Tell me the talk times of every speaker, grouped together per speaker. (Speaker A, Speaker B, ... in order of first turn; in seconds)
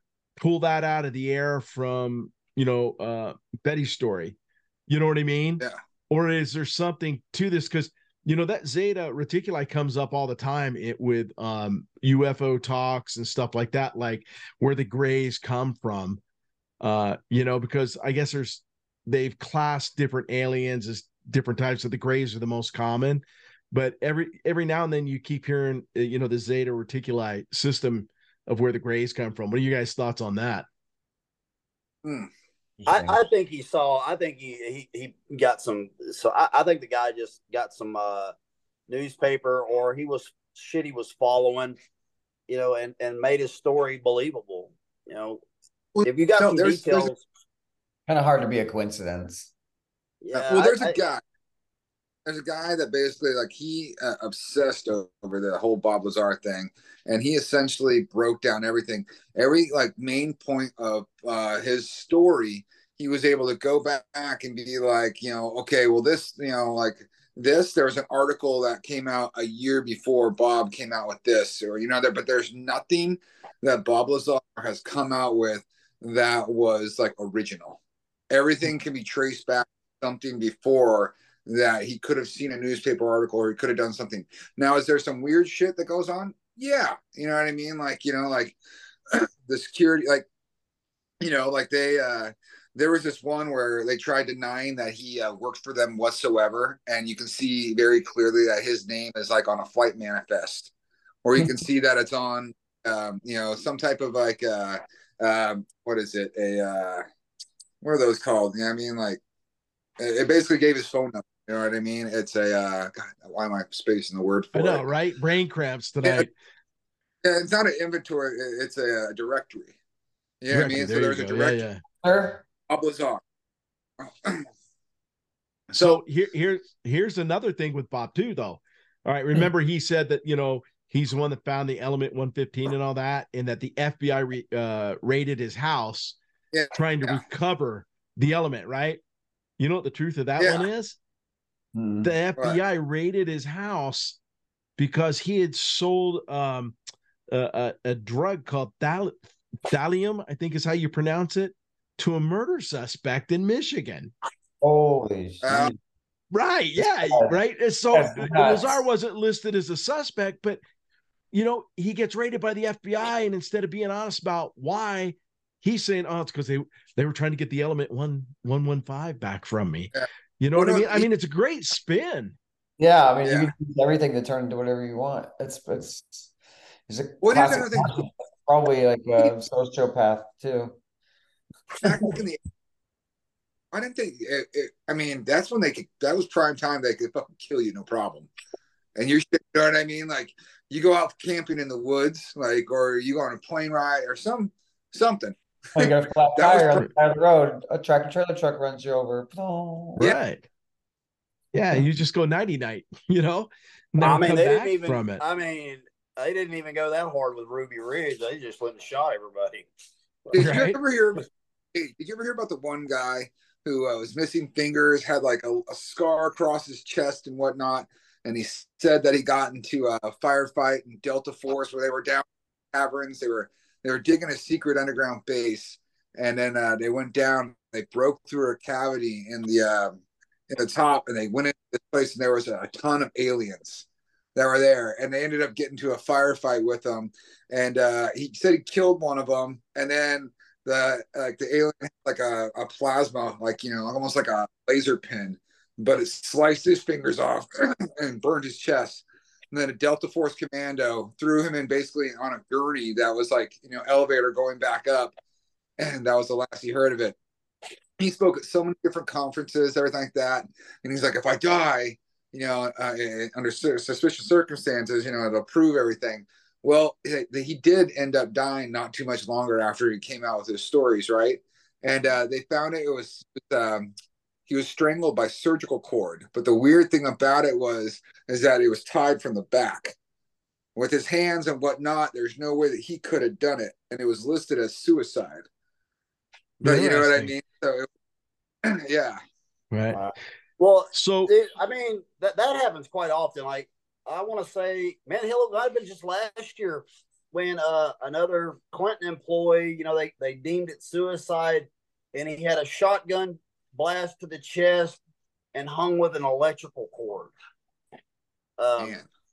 Speaker A: 0.4-4.4, 4.9-16.2, 16.8-30.7, 114.5-116.3, 120.5-121.8, 125.7-136.2, 136.7-139.0, 139.6-141.0, 142.0-144.2, 144.8-146.8, 147.3-154.1, 156.3-160.6, 161.3-172.4, 200.0-200.4, 201.5-205.2, 210.3-210.8, 286.6-287.3, 289.7-290.0, 290.9-291.3
Speaker B: 32.0-32.3, 46.0-47.1, 50.4-51.2, 52.3-77.8, 78.3-88.6, 89.1-90.3, 91.2-100.7, 101.2-107.0, 107.8-109.2, 110.0-114.9, 117.2-119.8, 120.4-121.6, 122.7-123.2, 124.0-124.5, 125.7-126.0, 136.5-137.2, 140.4-140.7, 155.4-155.7, 169.9-171.1, 173.2-173.5, 177.2-178.0, 181.8-182.4, 183.7-188.3, 189.0-196.9, 210.3-230.0, 230.5-255.2, 255.8-257.2, 258.0-273.9, 274.5-279.9, 280.8-285.4, 286.6-287.9, 288.6-289.2, 308.8-309.1
Speaker C: 32.8-33.2, 48.1-49.5, 122.0-122.4, 141.7-142.1, 154.6-155.8, 157.1-157.4, 157.9-158.8, 172.8-176.3, 176.9-180.8, 195.8-200.1
Speaker D: 32.9-38.3, 38.9-41.8, 42.5-45.4, 46.0-47.2, 50.2-51.0, 204.0-209.7, 290.6-305.0, 305.5-307.3, 308.6-309.0